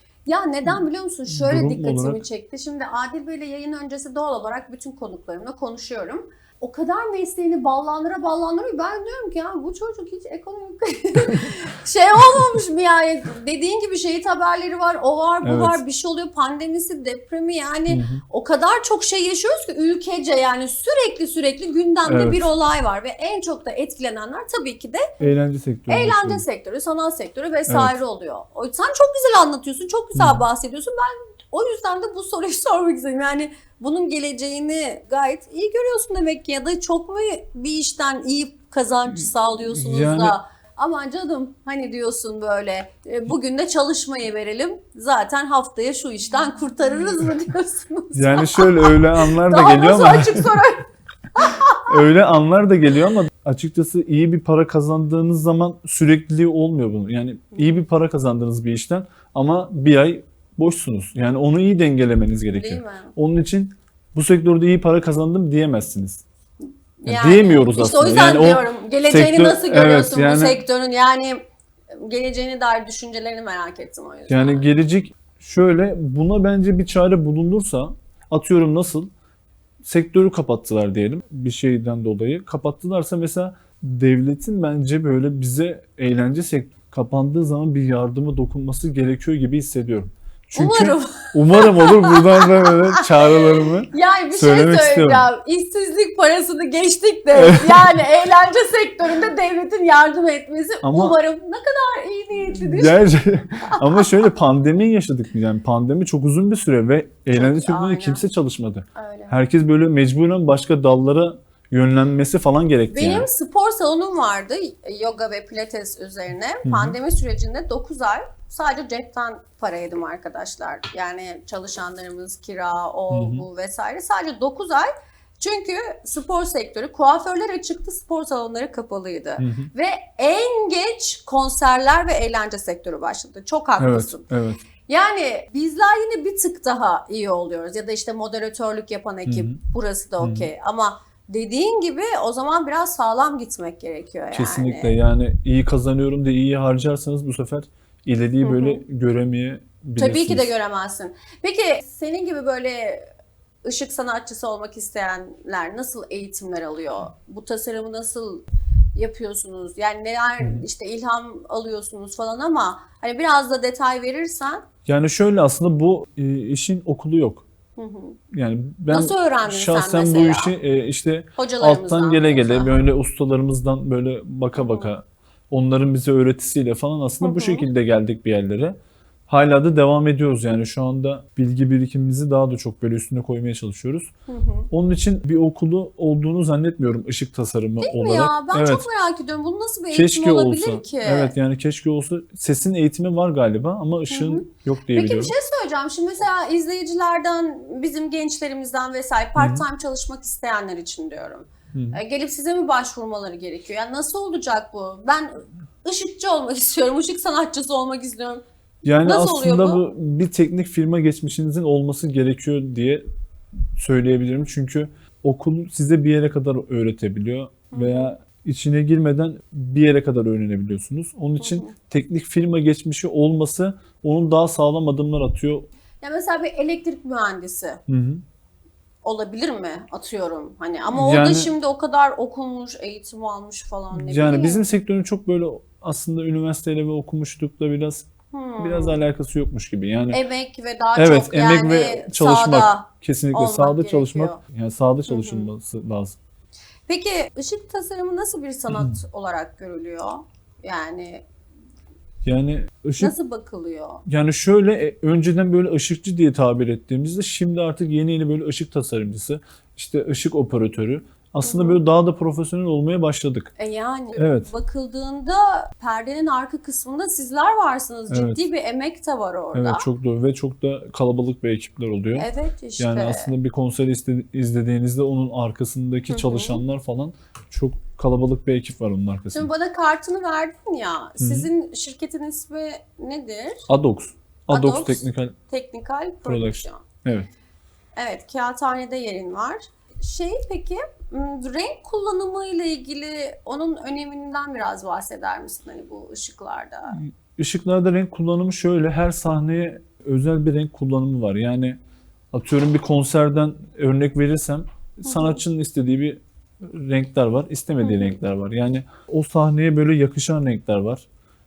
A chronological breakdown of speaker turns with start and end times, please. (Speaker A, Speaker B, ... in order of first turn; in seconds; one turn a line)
Speaker A: 0.3-25.2
Speaker B: 0.7-2.2
Speaker B: 15.4-15.8
Speaker B: 17.9-18.2
Speaker B: 22.0-22.5
Speaker B: 25.2-26.4
Speaker A: 25.9-52.0
Speaker B: 27.7-28.0
Speaker B: 30.1-30.4
Speaker B: 39.2-40.4
Speaker B: 48.1-50.6
Speaker B: 51.9-66.2
Speaker A: 62.5-63.1
Speaker A: 67.0-71.5
Speaker B: 67.1-70.6
Speaker A: 72.0-74.7
Speaker B: 74.3-79.1
Speaker B: 79.8-95.3
Speaker A: 90.5-103.1
Speaker B: 97.3-98.0
Speaker B: 100.8-101.2
Speaker B: 102.5-113.3
Speaker A: 103.6-104.2
Speaker A: 107.3-108.2
Speaker A: 109.0-109.4
Speaker A: 112.9-134.2
Speaker B: 116.6-117.0
Speaker B: 123.1-123.5
Speaker B: 129.4-129.7
Speaker B: 133.8-134.6
Speaker A: 134.9-144.9
Speaker B: 139.2-139.6
Speaker B: 140.2-140.5
Speaker B: 144.3-150.5
Speaker A: 148.4-148.8
Speaker A: 150.0-153.1
Speaker A: 153.6-158.4
Speaker A: 158.9-164.7
Speaker B: 164.8-167.5
Speaker A: 167.8-168.2
Speaker B: 168.3-178.8
Speaker A: 168.9-170.5
Speaker A: 171.4-172.8
Speaker A: 174.6-174.9
Speaker A: 177.2-177.7
Speaker B: 179.3-184.1
Speaker A: 184.3-184.7
Speaker B: 184.7-188.9
Speaker A: 187.8-191.3
Speaker B: 189.9-195.3
Speaker A: 194.1-208.4
Speaker B: 199.4-199.7
Speaker B: 201.7-202.0
Speaker B: 208.8-213.0
Speaker A: 209.0-209.8
Speaker B: 213.8-225.7
Speaker A: 217.7-218.1
Speaker A: 221.4-221.7
Speaker A: 226.0-227.8
Speaker B: 227.9-228.2
Speaker A: 229.0-234.6
Speaker B: 230.9-231.5
Speaker B: 233.9-238.1
Speaker A: 238.3-239.0
Speaker B: 238.6-240.2
Speaker A: 240.1-244.4
Speaker B: 240.9-246.2
Speaker A: 245.1-245.5
Speaker A: 246.9-251.2
Speaker B: 252.2-253.1
Speaker A: 253.0-254.0
Speaker B: 254.1-263.5
Speaker A: 261.4-261.8
Speaker A: 263.6-269.9
Speaker B: 264.1-264.5
Speaker B: 268.1-268.4
Speaker B: 269.5-272.3
Speaker A: 272.1-273.3
Speaker B: 272.8-279.5
Speaker A: 276.1-276.6
Speaker A: 279.3-283.7
Speaker B: 281.2-281.5
Speaker B: 283.7-285.4
Speaker A: 284.5-286.8
Speaker B: 286.2-287.3
Speaker A: 288.0-297.0
Speaker B: 296.9-301.8
Speaker B: 302.3-311.1
Speaker A: 305.1-305.4
Speaker A: 307.8-308.2